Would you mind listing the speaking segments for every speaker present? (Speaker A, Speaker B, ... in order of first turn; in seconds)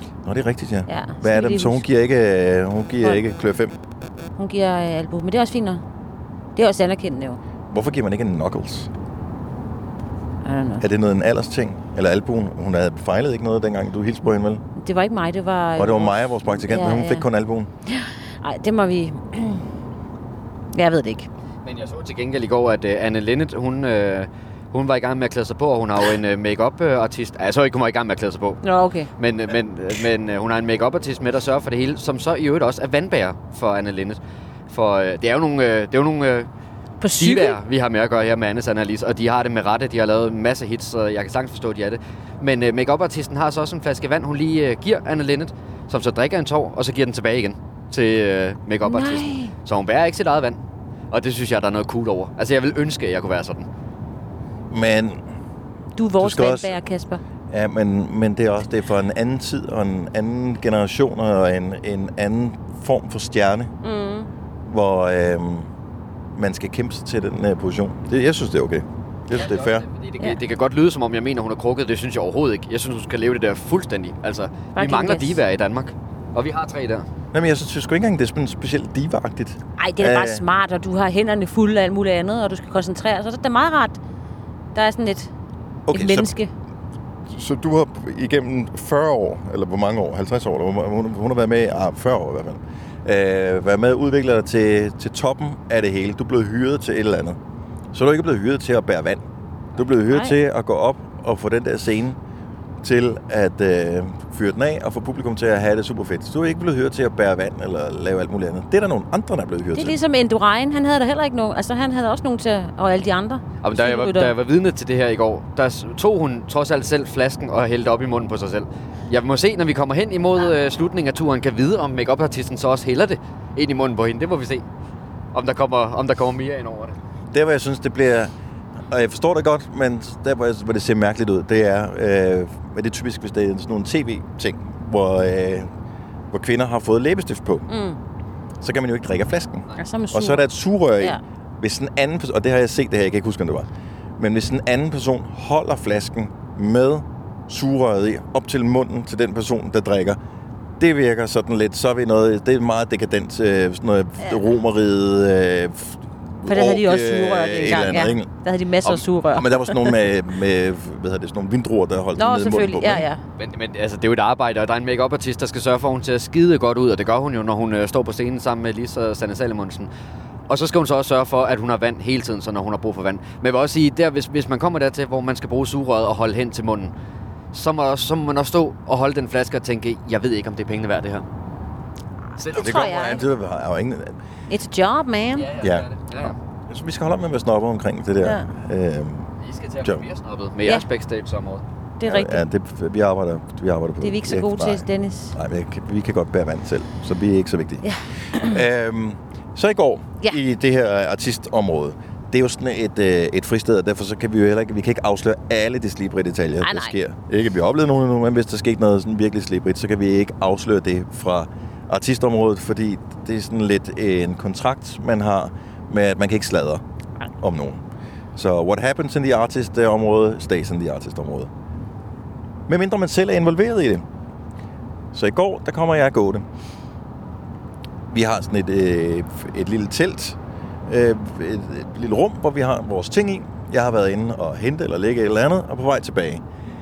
Speaker A: 0.2-3.8, 7.7-8.9, 10.8-14.6, 15.8-17.7, 54.7-55.2, 56.2-56.8, 57.5-63.7, 64.7-65.7, 66.4-69.8, 77.3-80.5, 85.9-86.3, 87.3-97.4, 97.9-99.2, 99.8-102.2, 102.8-110.0, 127.3-128.3, 128.9-135.7, 136.3-137.7, 138.6-150.2, 150.8-158.3, 158.8-163.1, 182.5-184.2, 185.6-185.9, 186.7-189.3, 192.1-216.8, 217.4-217.8, 218.4-221.5, 222.7-224.1, 225.1-226.4, 228.1-236.4
Speaker B: 0.9-1.8, 4.4-5.8, 6.6-7.4, 10.4-10.8, 14.8-17.3, 17.9-19.6, 20.7-21.3, 28.6-29.1, 37.0-37.6, 48.8-49.5, 56.0-57.2, 63.8-64.3, 74.8-75.4, 79.8-84.0, 84.7-85.3, 85.9-86.5, 100.1-100.4, 109.7-114.3, 137.7-138.0, 139.8-140.4, 156.5-160.0, 162.2-163.2, 182.5-183.2, 184.5-185.5, 192.0-192.4, 194.0-195.3, 197.8-198.5, 206.6-206.9
Speaker C: 21.6-28.6, 29.2-34.2, 34.7-36.5, 37.2-50.6, 51.1-53.7, 69.3-77.1, 113.6-124.6, 125.3-127.0, 163.4-169.9, 170.5-176.9, 177.5-181.2, 182.4-182.9, 185.4-186.4, 189.4-191.6